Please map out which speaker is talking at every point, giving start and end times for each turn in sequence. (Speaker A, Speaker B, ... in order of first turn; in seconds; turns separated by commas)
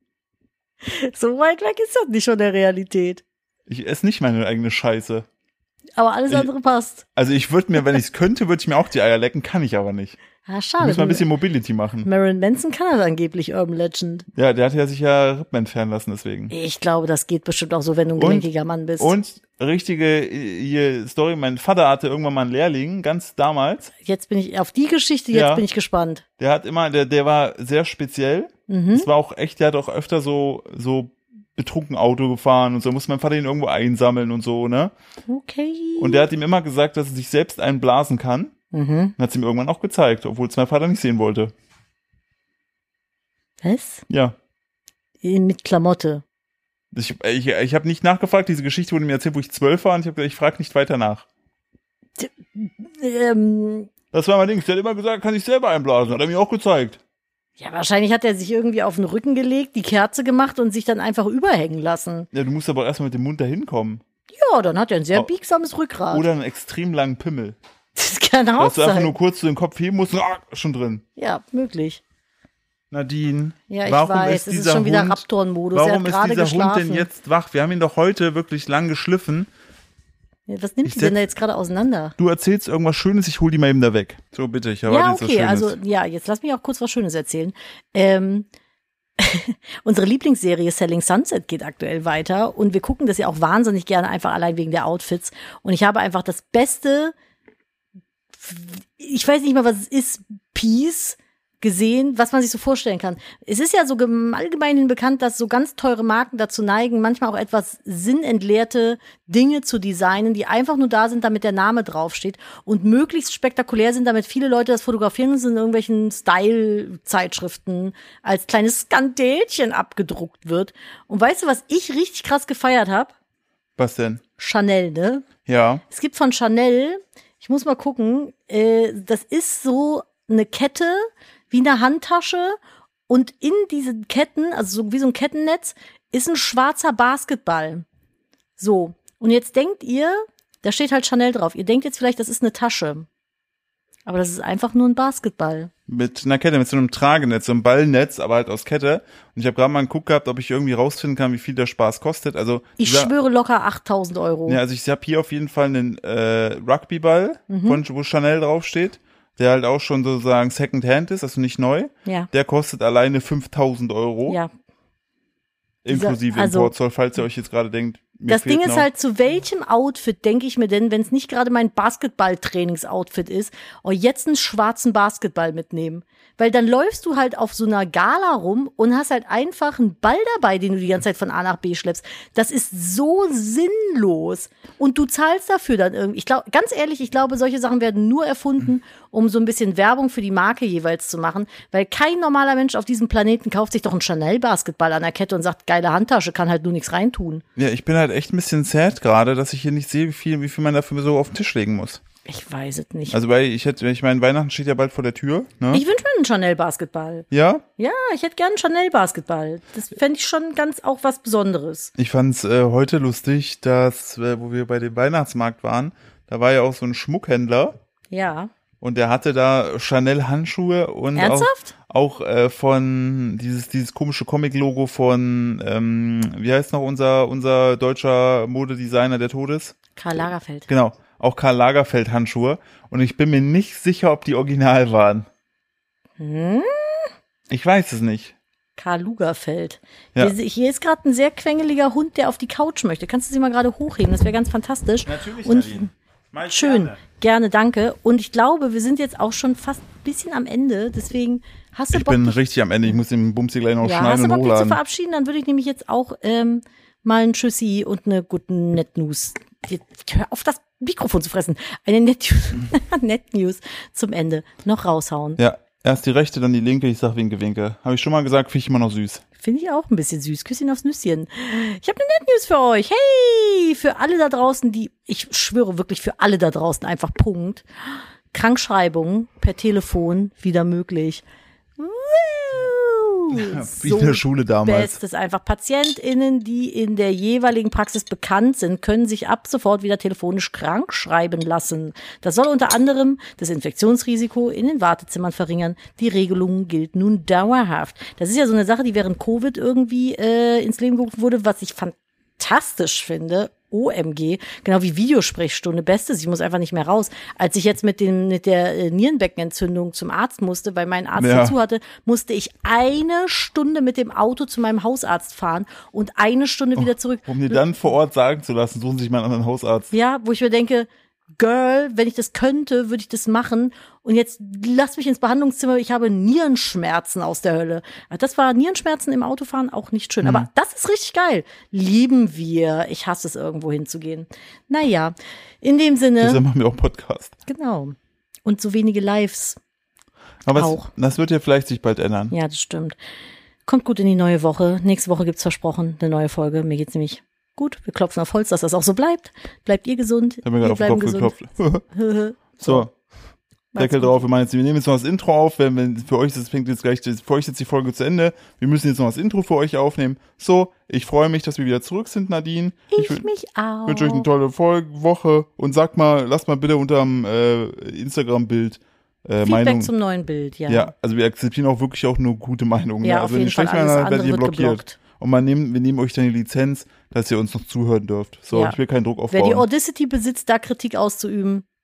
Speaker A: 0.8-3.2, Speaker B: 3.7-5.2, Speaker A: 6.0-7.0, Speaker B: 7.1-10.2, Speaker A: 10.4-11.2, Speaker B: 10.8-12.1, Speaker A: 12.0-14.3, Speaker B: 14.3-16.5, Speaker A: 16.5-19.1, Speaker B: 18.2-18.5, Speaker B: 19.0-23.9, Speaker A: 24.0-26.2, Speaker B: 25.3-25.6, Speaker B: 26.4-34.9, Speaker A: 28.7-29.1, Speaker A: 35.3-36.2, Speaker B: 36.0-38.5, Speaker A: 38.7-39.1, Speaker B: 39.2-41.5, Speaker A: 43.6-44.0, Speaker B: 44.1-44.3, Speaker A: 45.2-46.2, Speaker B: 46.9-51.2, Speaker A: 52.2-53.9, Speaker B: 54.1-57.0, Speaker A: 57.6-62.3, Speaker B: 62.3-64.0, Speaker A: 64.3-66.3, Speaker B: 66.1-67.6, Speaker A: 68.0-69.1, Speaker B: 68.6-71.0, Speaker A: 71.2-72.0, Speaker B: 72.9-79.5, Speaker A: 73.7-77.1, Speaker A: 80.5-82.1, Speaker B: 80.8-81.2, Speaker B: 82.2-85.8, Speaker A: 84.8-88.5, Speaker A: 89.2-97.1, Speaker A: 98.3-123.1, Speaker B: 123.8-124.2, Speaker A: 124.4-125.3, Speaker B: 125.5-125.8, Speaker A: 125.9-132.6, Speaker A: 133.1-137.8, Speaker A: 138.6-143.1, Speaker A: 144.1-145.7, Speaker B: 145.9-153.1, Speaker A: 152.8-154.6, Speaker B: 154.5-164.4, Speaker A: 157.5-157.8, Speaker B: 165.8-168.9, Speaker A: 165.9-166.7, Speaker A: 168.3-197.4, Speaker B: 197.6-202.0, Speaker A: 202.2-203.2, Speaker B: 203.1-205.8, Speaker A: 205.7-207.3, Speaker B: 207.3-207.6, Speaker A: 207.8-211.9, Speaker B: 212.0-217.8, Speaker A: 218.1-218.5, Speaker B: 218.8-229.8, Speaker A: 221.2-221.7, Speaker A: 229.9-230.7, Speaker B: 230.7-235.3, Speaker A: 236.2-237.1, Speaker B: 237.5-238.3, Speaker A: 238.8-245.9, Speaker B: 245.0-247.0, Speaker A: 246.4-252.4, Speaker B: 251.9-254.8, Speaker A: 253.8-265.4, Speaker B: 265.4-269.2, Speaker A: 269.4-281.2, Speaker A: 281.8-317.6, Speaker B: 283.3-285.0, Speaker B: 311.1-311.6, Speaker B: 316.8-319.9, Speaker A: 319.9-336.4, Speaker B: 330.2-330.5, Speaker B: 336.2-337.3, Speaker A: 337.4-339.6, Speaker B: 340.4-342.3, Speaker A: 340.5-340.9, Speaker A: 342.3-343.0, Speaker A: 343.6-351.3, Speaker B: 350.4-351.8, Speaker A: 351.9-352.8, Speaker B: 352.6-352.9, Speaker A: 353.7-354.2, Speaker B: 353.8-363.3, Speaker A: 362.9-364.3, Speaker B: 363.9-369.9, Speaker A: 369.4-370.9, Speaker B: 370.7-379.6, Speaker A: 373.0-375.0, Speaker A: 378.5-378.8, Speaker A: 379.3-381.6